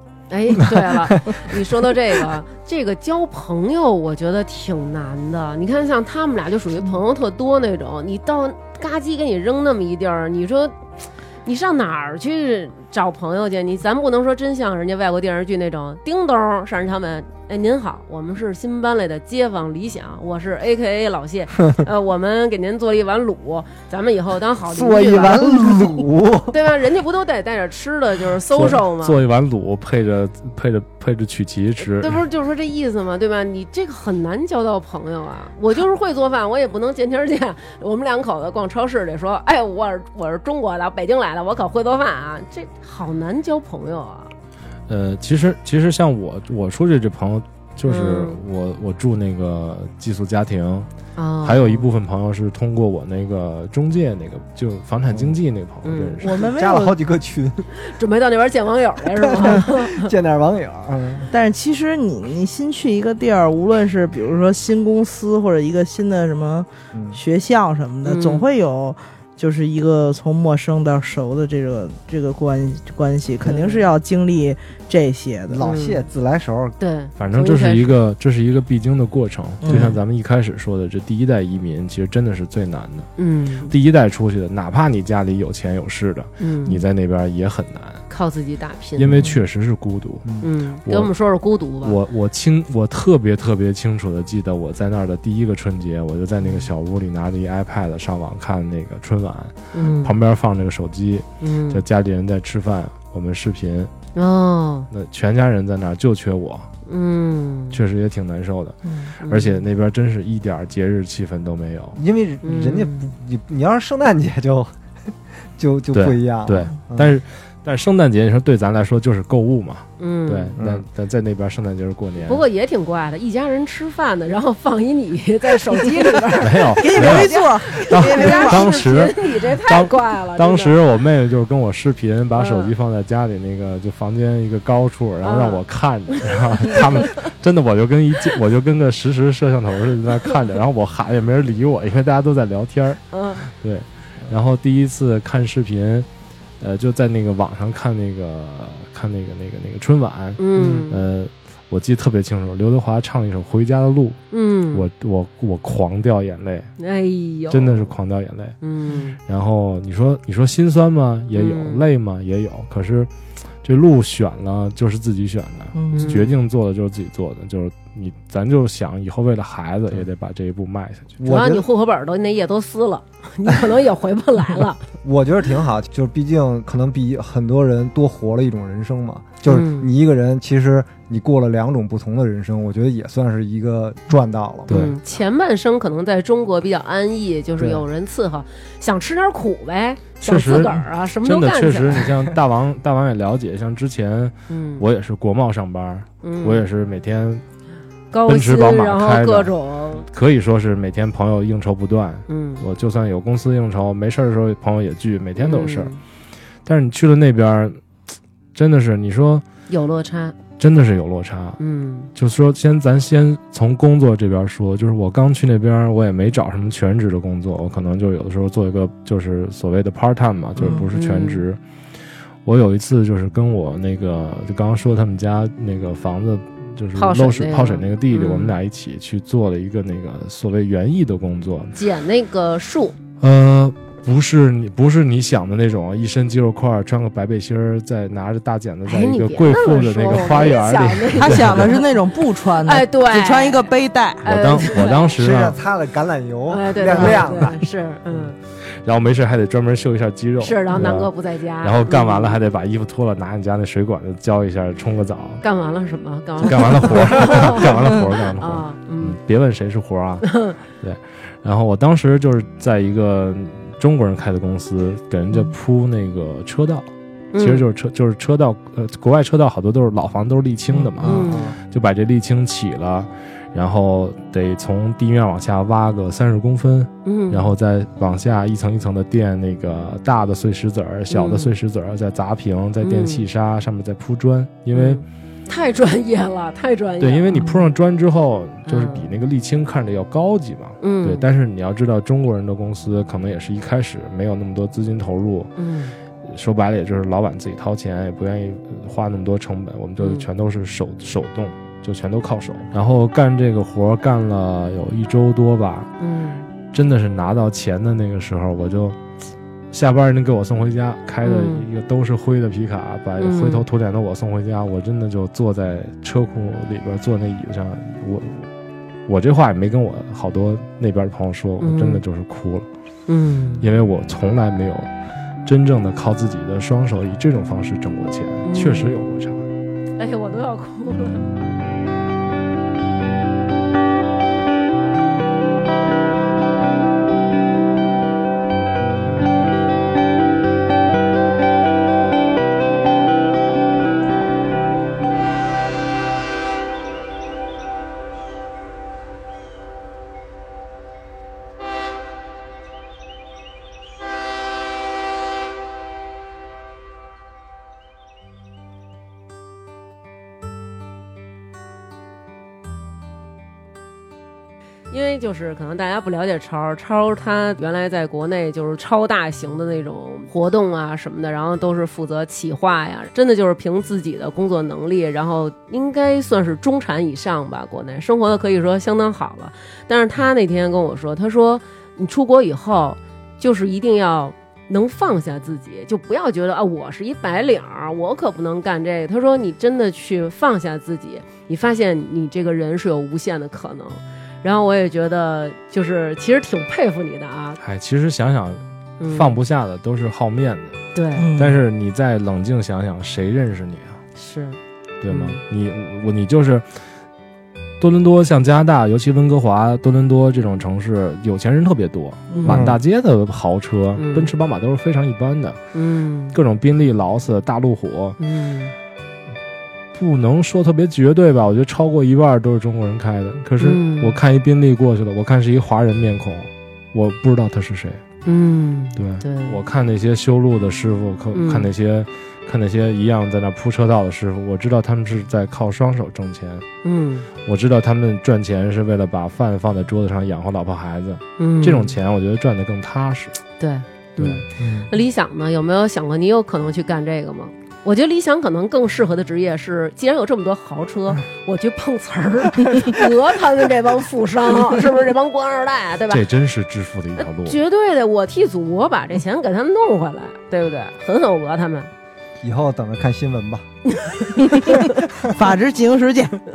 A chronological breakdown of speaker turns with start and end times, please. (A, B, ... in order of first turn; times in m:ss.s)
0:00.3-0:10.8 A
0:11.4-0:29.2 A
0:24.7-0:26.6 B
0:28.5-0:32.2 C
0:31.8-0:44.3 A
0:44.9-0:50.9 C
0:47.8-0:48.4 A
0:51.2-0:51.9 A
0:51.4-0:56.5 C
0:55.1-0:55.4 B
0:55.8-0:56.2 A
0:56.2-0:57.0 D
0:56.4-0:57.7 B
0:57.7-1:00.1 A
0:59.2-1:01.3 B
1:01.3-1:15.6 D
1:06.9-1:07.2 B
1:08.0-1:08.4 A
1:13.4-1:13.8 A
1:15.5-1:16.8 B
1:15.6-1:16.0 A
1:16.8-1:18.0 A
1:17.2-1:23.1 C
1:19.6-1:20.0 D
1:23.2-1:23.7 A
1:23.7-1:28.0 C
1:26.4-1:26.8 A
1:28.1-1:29.3 A
1:29.0-1:30.3 C
1:30.4-1:32.0 A
1:30.8-1:31.1 C
1:31.8-1:43.9 C
1:39.7-1:40.2 A
1:41.4-1:41.8 A
1:44.1-1:44.9 A
1:44.9-1:46.7 C
1:46.8-1:47.8 A
1:47.7-1:52.0 C
1:48.8-1:49.1 D
1:49.2-1:49.6 A
1:52.0-1:54.7 B
1:52.4-1:53.1 A
1:55.5-1:57.2 B
1:55.9-2:02.4 C
2:00.0-2:00.6 A
2:00.6-2:00.8 B
2:02.2-2:10.7 A
2:06.4-2:26.1 C
2:06.8-2:09.1 D
2:12.3-2:12.7 A
2:15.2-2:15.6 A
2:16.6-2:17.1 A
2:23.1-2:23.5 A
2:26.6-2:34.2 C
2:30.4-2:31.0 A
2:30.6-2:30.8 B
2:34.3-2:34.8 A
2:34.7-2:36.7 C
2:36.8-2:37.9 A
2:37.5-2:38.6 C
2:38.6-2:39.2 A
2:39.2-2:43.1 C
2:41.3-2:41.8 A
2:43.6-2:51.2 C
2:45.7-2:46.1 D
2:45.9-2:46.3 A
2:51.2-2:51.6 B
2:51.2-2:54.8 A
2:55.0-3:04.7 B
2:59.5-2:59.9 A
3:04.7-3:12.1 A
3:04.7-3:04.9 C
3:07.6-3:07.8 B
3:10.2-3:17.4 C
3:14.5-3:14.8 A
3:16.2-3:16.6 A
3:18.1-3:20.0 A
3:18.3-3:25.9 C
3:22.3-3:22.6 A
3:25.4-3:26.0 A
3:26.6-3:27.8 C
3:28.5-3:29.4 C
3:29.7-3:30.4 A
3:30.6-3:31.6 C
3:31.6-3:32.1 A
3:32.1-3:41.6 C
3:40.6-3:41.4 A
3:42.4-3:51.7 C
3:47.0-3:48.6 A
3:51.7-3:53.0 A
3:53.2-4:01.8 C
3:58.8-4:01.9 A
4:01.2-4:04.2 D
4:02.6-4:03.7 A
4:04.2-4:05.1 A
4:04.2-4:05.6 C
4:05.2-4:07.6 B
4:06.5-4:08.4 A
4:06.9-4:07.2 D
4:08.8-4:11.1 C
4:10.4-4:12.4 A
4:11.6-4:15.4 C
4:15.4-4:19.2 A
4:16.4-4:45.0 C
4:20.2-4:20.6 A
4:27.3-4:27.6 A
4:30.7-4:31.1 D
4:31.0-4:31.5 A
4:31.1-4:31.6 B
4:37.0-4:37.5 A
4:41.1-4:41.5 A
4:42.8-4:43.2 A
4:44.7-4:47.5 A
4:47.0-4:55.5 C
4:47.3-4:47.6 D
4:48.7-4:49.1 A
4:50.8-4:51.2 A
4:55.6-4:56.0 A
4:56.2-5:05.9 C
5:00.0-5:00.2 A
5:06.0-5:06.5 A
5:06.7-5:09.0 C
5:09.7-5:18.5 C
5:11.2-5:11.6 A
5:13.2-5:13.6 A
5:19.1-5:22.7 C
5:21.6-5:22.0 A
5:23.1-5:23.7 A
5:23.6-5:24.9 C
5:25.4-5:29.4 C
5:28.5-5:29.0 A
5:30.0-5:31.2 A
6:04.9-6:37.6 A
6:37.6-6:40.8 C
6:39.0-6:39.3 A
6:40.9-6:41.3 A
6:41.2-6:41.6 D
6:41.3-6:44.0 C
6:44.2-6:44.6 A
6:45.0-6:46.7 C
6:45.1-6:45.4 A
6:47.8-6:55.6 C
6:52.3-6:52.6 A
6:52.4-6:52.8 B
6:54.0-6:54.3 A
6:55.7-6:56.4 A
6:56.3-6:58.2 C
6:58.2-6:58.7 A
6:59.9-7:08.0 C
7:03.6-7:04.2 A
7:08.2-7:09.6 A
7:09.0-7:16.6 C
7:11.3-7:11.7 A
7:16.8-7:17.3 A
7:17.4-7:23.4 C
7:21.4-7:21.9 A
7:23.6-7:36.2 A
7:24.2-7:24.4 C
7:24.6-7:24.9 B
7:36.1-7:37.6 C
7:37.2-7:41.9 A
7:42.4-7:43.6 B
7:43.9-7:45.0 A
7:44.4-7:46.4 D